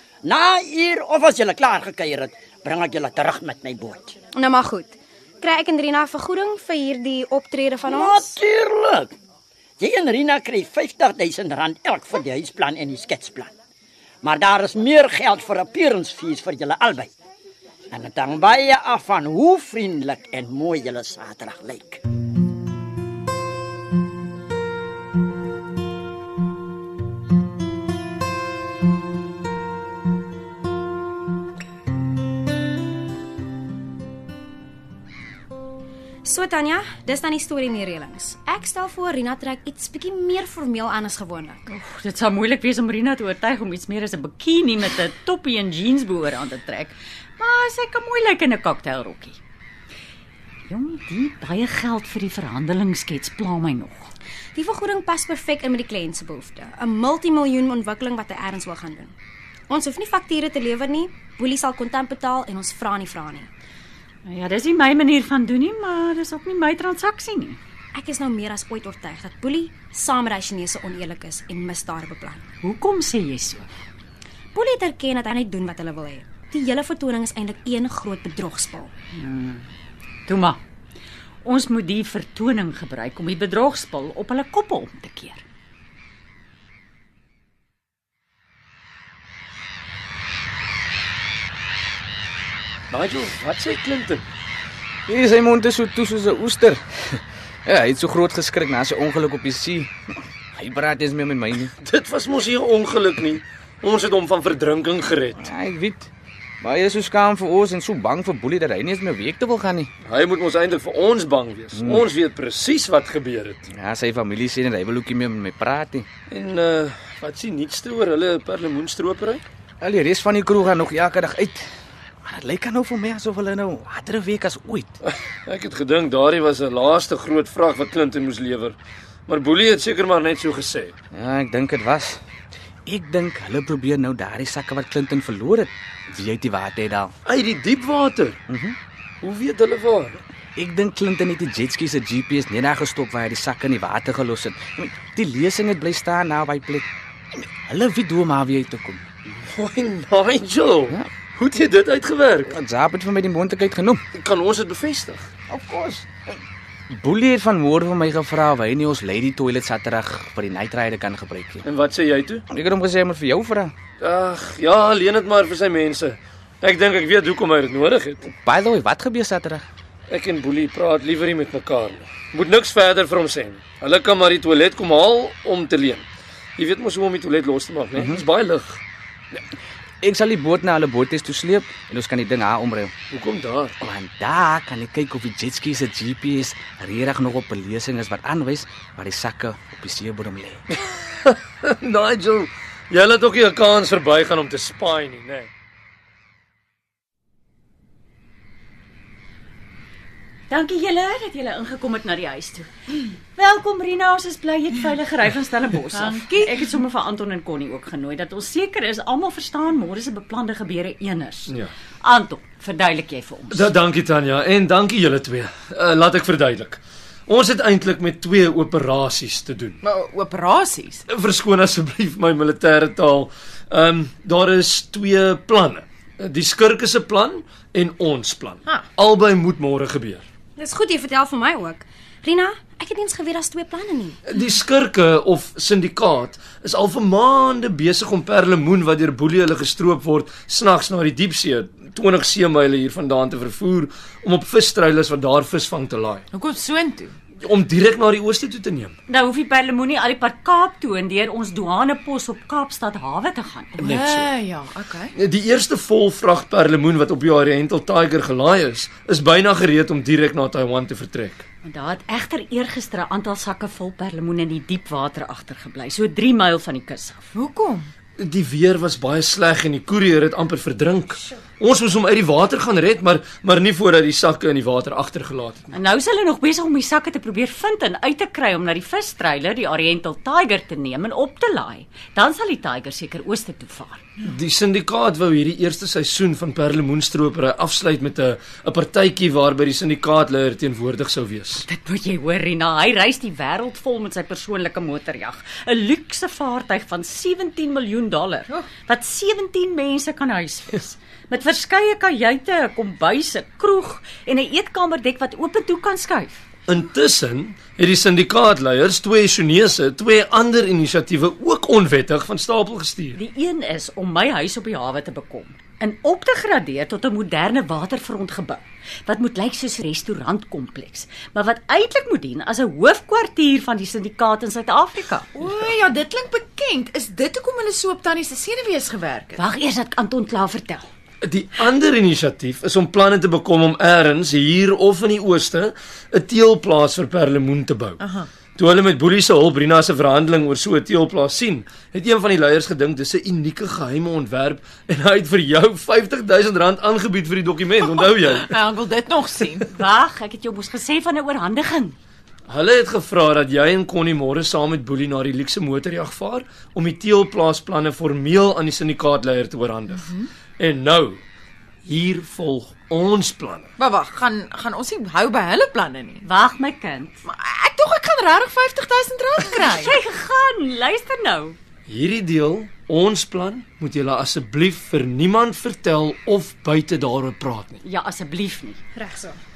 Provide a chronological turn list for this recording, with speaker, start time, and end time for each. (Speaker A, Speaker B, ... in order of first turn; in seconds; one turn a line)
Speaker A: 0.2-4.2
Speaker B: 4.3-8.4
Speaker A: 7.8-9.1
Speaker A: 9.8-13.5
Speaker A: 14.2-17.1
Speaker A: 17.9-22.0
Speaker B: 36.2-41.6
Speaker C: 41.7-49.4
Speaker C: 50.7-54.1
Speaker B: 54.5-59.1
Speaker B: 59.7-63.5
Speaker C: 64.3-67.6
Speaker B: 68.0-72.4
Speaker C: 72.6-73.7
Speaker B: 74.5-78.9
Speaker C: 79.1-79.7
Speaker C: 80.3-80.6
Speaker C: 81.4-85.4
Speaker D: 92.9-94.3
Speaker E: 95.1-99.9
Speaker E: 100.5-101.7
Speaker D: 101.8-105.5
Speaker E: 105.4-106.1
Speaker E: 106.6-109.9
Speaker D: 110.0-113.6
Speaker E: 111.7-112.1
Speaker E: 113.7-116.1
Speaker D: 116.3-119.4
Speaker E: 119.8-121.7
Speaker E: 122.3-125.0
Speaker D: 125.0-130.9
Speaker E: 131.1-132.2
Speaker E: 132.9-137.1
Speaker D: 137.2-138.4
Speaker E: 138.5-138.8
Speaker D: 139.2-140.2
Speaker E: 140.6-149.0
Speaker D: 149.5-152.6
Speaker E: 152.5-154.0
Speaker D: 154.1-155.3
Speaker E: 155.5-156.4
Speaker E: 156.9-161.7
Speaker D: 161.6-162.4
Speaker E: 162.5-163.7
Speaker D: 164.0-168.3
Speaker E: 168.3-169.7
Speaker D: 170.1-178.8
Speaker E: 177.9-178.2
Speaker E: 180.0-182.9
Speaker D: 183.1-183.8
Speaker E: 183.8-190.6
Speaker D: 190.8-195.5
Speaker C: 200.5-213.7
Speaker F: 205.9-206.7
Speaker D: 213.5-219.8
Speaker F: 219.8-221.0
Speaker D: 221.1-230.2
Speaker B: 230.6-234.2
Speaker D: 234.3-246.2
Speaker F: 246.3-247.2
Speaker D: 247.4-248.9
Speaker C: 249.1-254.0
Speaker D: 253.8-254.4
Speaker F: 253.8-255.1
Speaker D: 255.2-261.4
Speaker C: 261.6-267.3
Speaker F: 267.4-267.9
Speaker D: 268.2-275.6
Speaker C: 275.7-284.0
Speaker D: 284.2-291.6
Speaker C: 291.6-306.4
Speaker D: 306.7-313.2
Speaker C: 313.2-325.3
Speaker F: 325.3-329.4
Speaker C: 329.4-330.9
Speaker D: 331.2-338.0
Speaker F: 338.0-338.3
Speaker D: 338.6-348.7
Speaker F: 348.5-349.8
Speaker C: 349.6-352.0
Speaker D: 352.5-361.2
Speaker D: 361.9-363.7
Speaker F: 363.8-366.3
Speaker C: 366.2-367.2
Speaker F: 367.3-370.0
Speaker C: 369.4-371.6
Speaker D: 371.9-377.8
Speaker C: 377.8-378.8
Speaker B: 379.0-379.4